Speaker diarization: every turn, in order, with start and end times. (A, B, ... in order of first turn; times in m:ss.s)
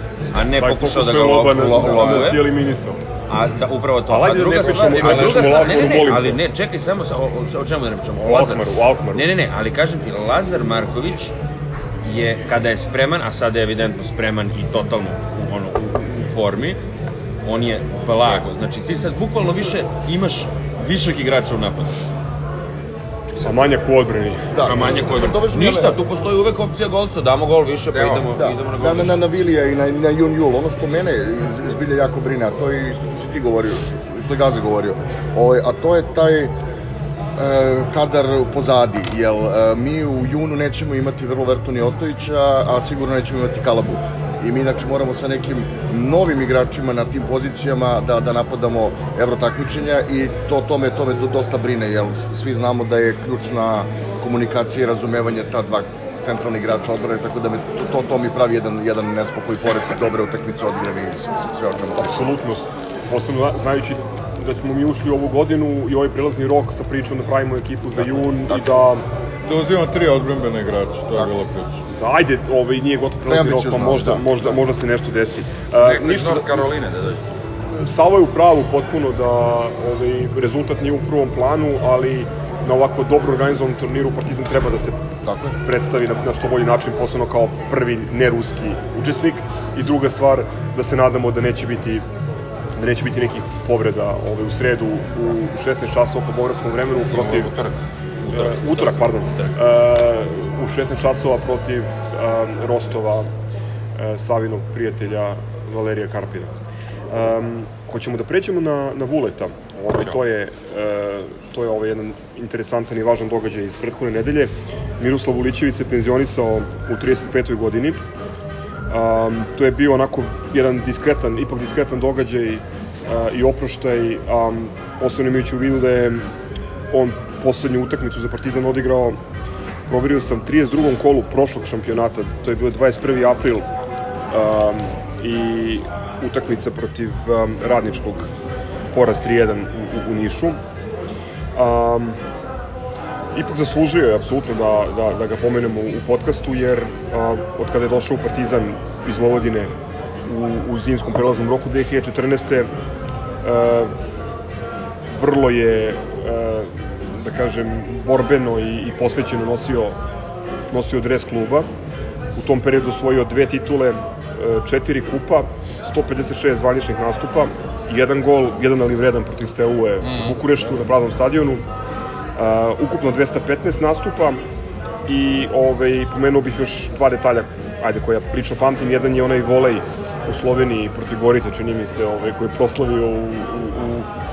0:00.3-0:02.4 A
0:00.5-0:03.0 B
0:03.3-0:11.3 A
0:04.1-0:06.4 B
0:04.9-0:05.9 C
0:08.2-0:09.3 B
0:12.0-0:16.8 A
0:17.4-0:22.0 A
0:23.4-0:25.2 B
0:24.5-0:26.0 D
0:24.6-0:29.2 A
0:27.9-0:28.3 C
0:28.3-0:36.5 D
0:37.4-1:02.3 D
1:02.0-1:09.0 B
1:09.4-1:11.8 E
1:11.9-1:16.7 B
1:13.2-1:14.3 D
1:15.8-1:17.3 C
1:17.7-1:25.0 B
1:25.2-1:25.6 D
1:25.6-1:32.0 B
1:32.8-1:37.5 B
1:37.1-1:39.5 C
1:38.3-1:43.3 B
1:44.0-1:46.5 B
1:47.1-1:58.0 B
1:58.9-2:06.2 B
2:06.9-2:09.2 B
2:09.9-2:13.7 B
2:14.3-2:18.3 B
2:18.9-2:20.6 B
2:21.5-2:22.2 B
2:23.3-2:29.7 B
2:30.2-2:32.7 B
2:33.4-2:33.9 B
2:35.1-2:40.0 B
2:40.7-2:41.7 B
2:42.3-2:51.6 B
2:52.4-2:54.4 B
2:55.1-3:04.1 B